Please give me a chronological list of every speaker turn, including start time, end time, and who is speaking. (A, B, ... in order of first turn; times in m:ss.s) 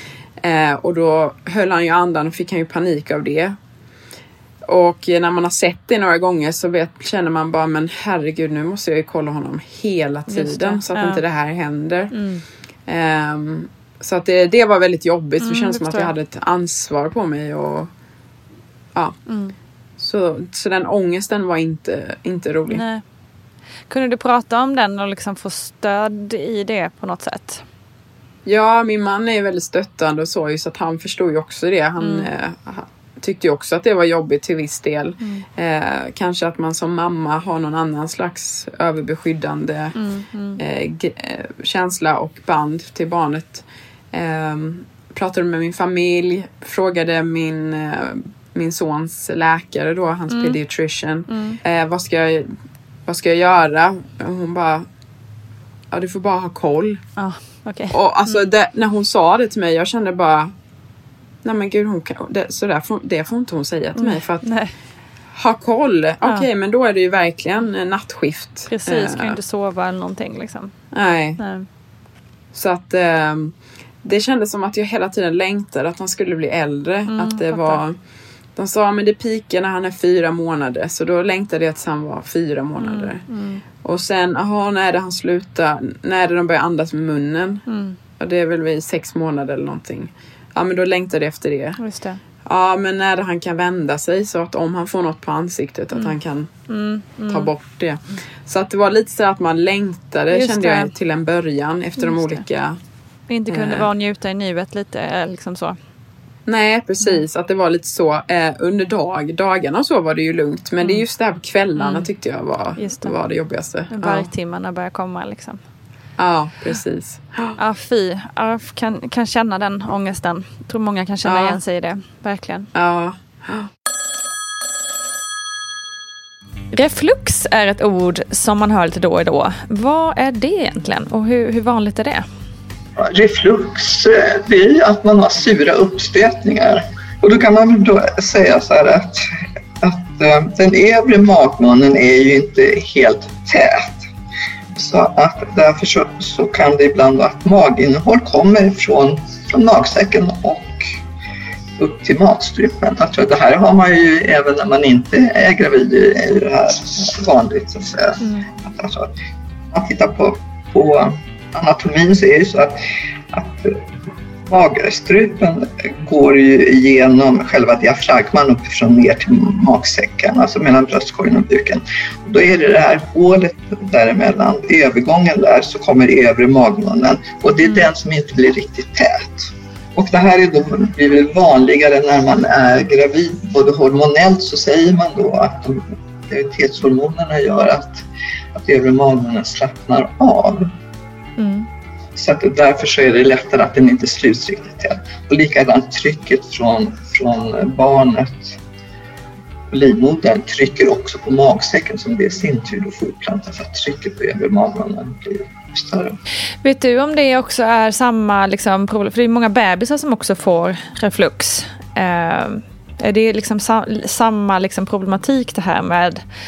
0:00.4-0:03.6 A
0:04.7-0:12.2 A
0:10.3-0:11.2 B
0:12.1-0:12.4 B
0:12.9-0:17.9 A
0:15.4-0:16.1 B
0:19.3-0:19.6 B
0:20.0-0:22.8 A
0:22.7-0:23.0 B
0:23.9-0:27.6 B
0:28.4-0:40.0 A
0:32.0-0:32.3 B
0:40.0-0:40.6 B
0:40.6-0:52.5 A
0:50.3-0:50.6 B
0:51.3-0:51.6 B
0:53.1-0:54.9 A
0:55.9-0:57.0 A
0:57.2-0:58.5 B
0:57.9-1:00.5 A
1:01.4-1:04.5 A
1:04.0-1:04.7 B
1:05.3-1:09.4 A
1:08.7-1:10.8 B
1:10.9-1:11.4 A
1:11.4-1:11.7 B
1:12.5-1:18.0 A
1:17.1-1:17.8 B
1:18.6-1:23.2 A
1:22.8-1:23.6 B
1:23.8-1:27.6 A
1:27.7-1:28.0 B
1:28.2-1:31.8 A
1:31.8-1:32.2 B
1:32.4-1:36.5 A
1:36.7-1:37.5 B
1:37.3-1:42.8 A
1:40.3-1:40.9 B
1:42.0-1:42.4 B
1:43.3-1:45.8 B
1:43.5-1:43.9 A
1:46.5-1:54.3 A
1:51.8-1:52.1 B
1:52.8-1:53.1 B
1:53.9-1:55.6 B
1:56.2-1:57.6 A
1:57.6-2:02.7 B
2:01.2-2:01.6 A
2:02.7-2:03.7 A
2:06.7-2:12.3 B
2:13.0-2:19.3 C
2:19.8-2:24.1 C
2:24.8-2:30.9 C
2:31.8-2:39.1 C
2:38.2-2:38.5 B
2:39.7-2:42.8 C
2:43.3-2:43.8 C
2:44.5-3:10.7 C
3:11.4-3:11.7 B
3:12.2-3:18.6 C
3:19.7-3:26.2 C
3:26.6-3:36.2 B